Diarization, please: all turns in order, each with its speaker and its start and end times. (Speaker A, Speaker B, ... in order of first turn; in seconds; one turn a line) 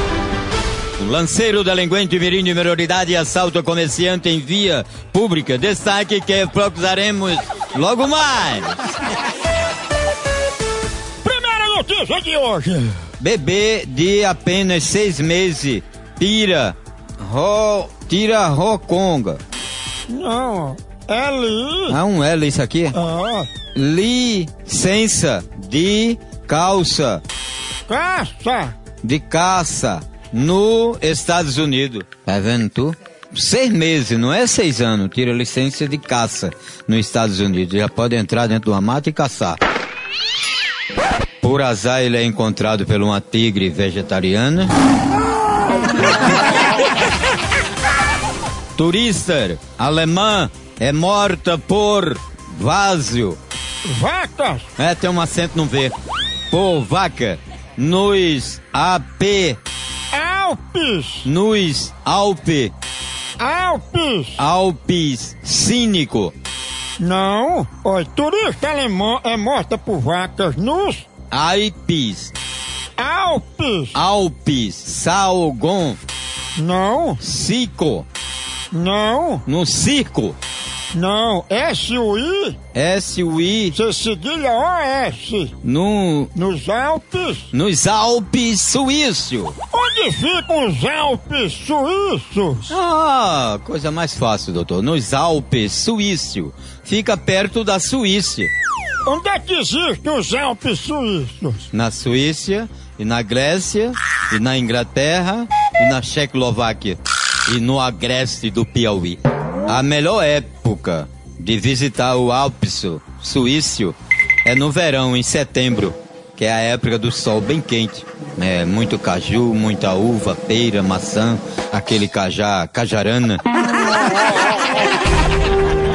Speaker A: 1.0-8.8
Speaker B: 11.2-12.9
Speaker A: 13.2-19.4
Speaker B: 20.1-22.0
Speaker A: 21.9-22.9
Speaker B: 22.9-23.5
Speaker A: 23.7-27.2
Speaker B: 27.9-28.7
Speaker A: 29.0-39.6
Speaker A: 41.4-44.7
Speaker A: 48.8-53.4
Speaker B: 53.8-54.7
Speaker A: 54.8-55.9
Speaker A: 56.5-59.6
Speaker B: 60.1-61.3
Speaker A: 61.2-62.7
Speaker B: 63.4-64.4
Speaker A: 64.4-66.3
Speaker B: 67.0-71.1
Speaker A: 71.3-72.3
Speaker B: 73.0-74.0
Speaker A: 73.9-76.0
Speaker B: 76.5-77.2
Speaker A: 77.2-78.1
Speaker B: 78.7-79.4
Speaker A: 79.5-80.4
Speaker B: 80.9-82.6
Speaker A: 82.7-83.8
Speaker B: 83.7-85.5
Speaker A: 85.6-86.3
Speaker B: 86.3-87.5
Speaker A: 87.5-89.5
Speaker B: 89.7-92.7
Speaker A: 92.7-98.5
Speaker B: 99.0-101.6
Speaker A: 101.7-123.4